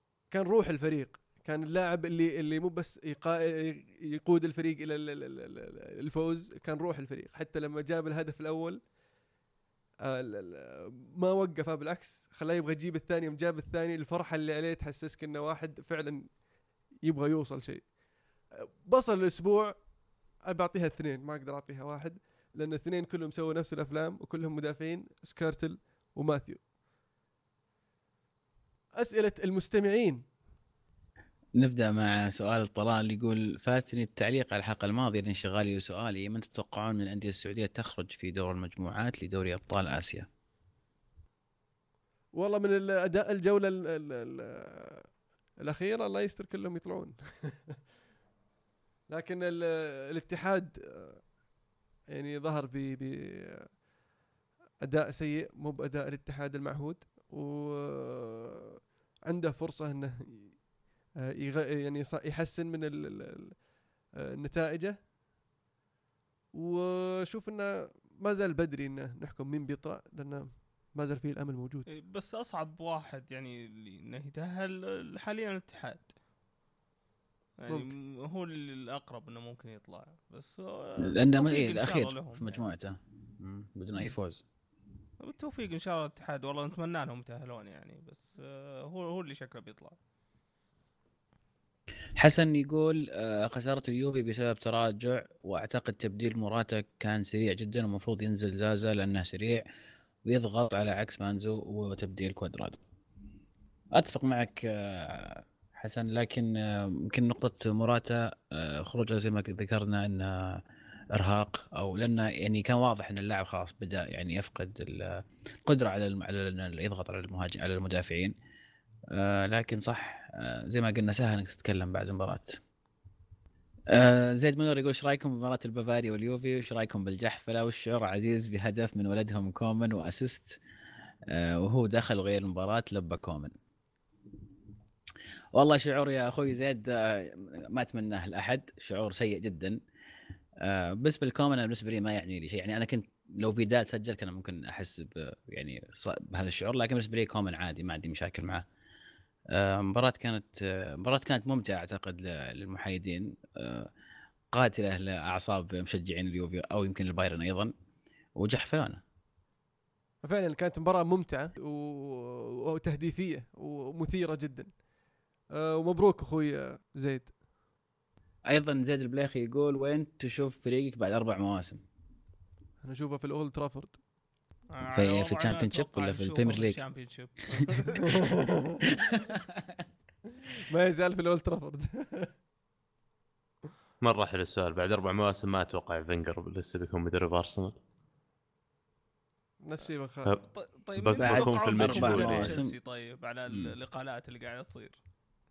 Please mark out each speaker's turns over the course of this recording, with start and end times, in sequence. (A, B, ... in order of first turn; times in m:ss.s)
0:00.3-0:08.8 A
0:10.0-0:16.3 A
0:17.0-0:17.8 A
0:18.6-0:19.7 A
0:20.4-0:26.6 A
0:29.0-0:30.2 A
0:31.6-0:40.3 B
0:42.3-0:45.1 A
0:45.6-0:47.7 A
0:49.1-0:51.2 A
0:52.1-0:53.7 A
0:54.8-1:00.6 A
1:01.2-1:03.7 A
1:04.4-1:05.0 A
1:06.5-1:11.9 A
1:11.9-1:16.1 C
1:17.6-1:22.6 C
1:21.0-1:24.4 B
1:25.2-1:30.0 C
1:32.2-1:39.6 B
1:40.2-1:42.8 B
1:43.9-1:58.3 B
1:59.1-2:02.6 B
2:03.9-2:10.6 B
2:11.3-2:13.5 B
2:15.5-2:19.8 B
2:20.6-2:28.6 B
2:29.5-2:33.9 B
2:34.5-2:37.7 B
2:38.4-2:39.0 B
2:40.2-2:44.7 A
2:45.5-2:47.3 A
2:48.5-2:51.8 B
2:52.8-2:54.0 A
2:54.7-2:58.2 C
2:54.9-2:56.8 B
2:58.9-2:59.8 B
3:00.7-3:02.3 A
3:04.0-3:07.7 D
3:09.6-3:10.3 A
3:10.5-3:15.0 C
3:11.0-3:12.6 D
3:11.2-3:12.7 B